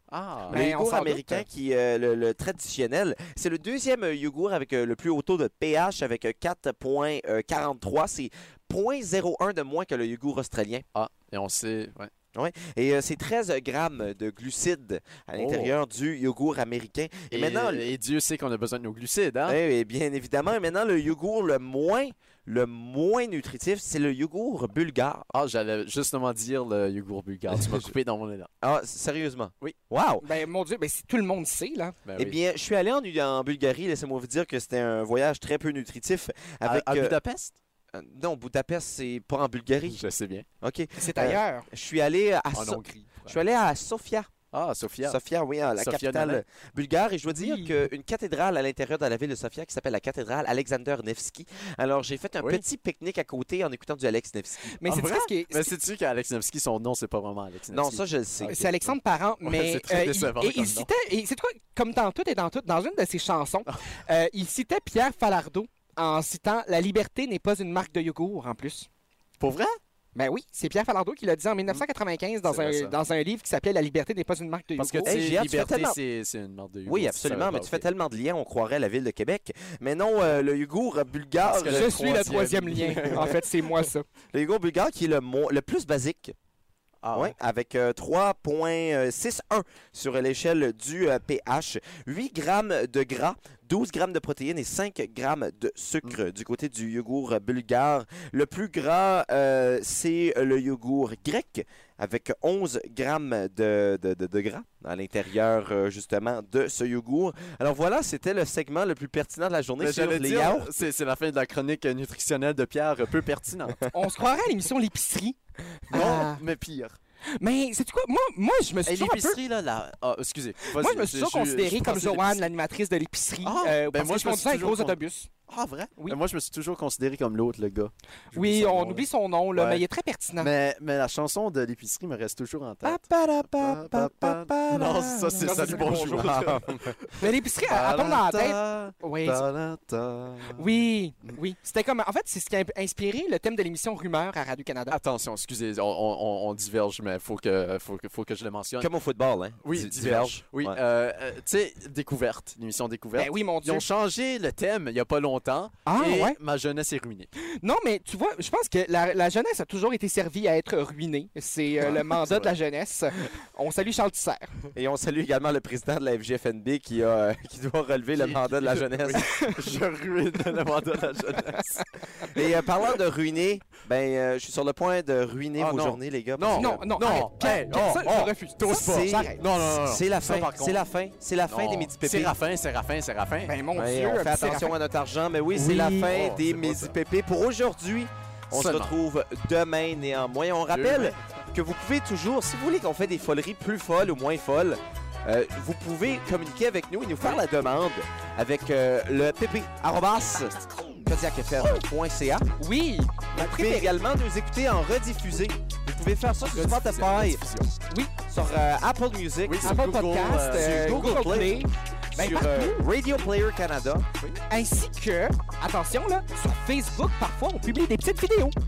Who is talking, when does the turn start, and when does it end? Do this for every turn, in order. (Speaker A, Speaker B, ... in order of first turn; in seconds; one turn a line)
Speaker A: 0.1-0.6
Speaker B: 0.5-1.4
Speaker C: 0.5-10.9
Speaker A: 10.9-12.1
Speaker C: 12.3-17.9
Speaker A: 15.4-15.7
Speaker A: 17.3-19.6
Speaker C: 19.5-25.3
Speaker A: 25.3-28.5
Speaker C: 27.6-27.9
Speaker C: 28.6-30.2
Speaker B: 30.2-32.0
Speaker A: 32.1-32.4
Speaker C: 32.2-37.2
Speaker A: 36.6-37.6
Speaker C: 37.9-40.0
Speaker A: 39.9-40.5
Speaker C: 40.6-44.3
Speaker B: 41.0-41.7
Speaker A: 42.5-43.4
Speaker A: 44.5-45.2
Speaker C: 45.0-54.8
Speaker A: 45.8-46.4
Speaker B: 47.3-47.8
Speaker B: 54.8-55.7
Speaker A: 54.9-60.9
Speaker C: 57.7-58.5
Speaker B: 58.4-68.9
Speaker A: 69.4-69.8
Speaker B: 70.2-75.2
Speaker A: 72.5-73.0
Speaker A: 74.8-77.9
Speaker C: 75.0-76.0
Speaker C: 76.9-81.9
Speaker A: 81.4-83.8
Speaker B: 81.7-84.0
Speaker C: 84.3-86.3
Speaker A: 87.0-87.3
Speaker C: 87.1-110.7
Speaker A: 109.8-113.8
Speaker B: 113.9-116.4
Speaker A: 115.9-117.0
Speaker B: 117.4-119.4
Speaker A: 118.9-122.5
Speaker B: 120.7-125.3
Speaker A: 123.4-125.0
Speaker A: 125.5-129.8
Speaker B: 128.3-130.5
Speaker A: 130.4-140.6
Speaker C: 132.8-137.0
Speaker B: 135.4-136.5
Speaker B: 137.2-139.5
Speaker B: 140.5-145.0
Speaker A: 144.9-148.9
Speaker C: 148.8-150.8
Speaker A: 149.6-157.3
Speaker B: 153.2-153.9
Speaker B: 155.9-156.4
Speaker B: 157.6-164.5
Speaker A: 161.8-162.5
Speaker C: 164.7-169.3
Speaker A: 168.2-171.9
Speaker B: 169.3-169.6
Speaker C: 172.3-176.8
Speaker A: 175.6-180.8
Speaker B: 176.6-179.4
Speaker C: 177.7-182.4
Speaker A: 181.5-183.6
Speaker B: 183.4-184.8
Speaker C: 183.8-202.5
Speaker A: 185.6-186.9
Speaker A: 188.5-188.9
Speaker A: 190.7-191.2
Speaker B: 202.6-203.9
Speaker C: 203.3-207.4
Speaker A: 206.5-207.7
Speaker C: 208.3-214.1
Speaker A: 209.5-211.2
Speaker B: 209.6-212.8
Speaker B: 214.5-218.6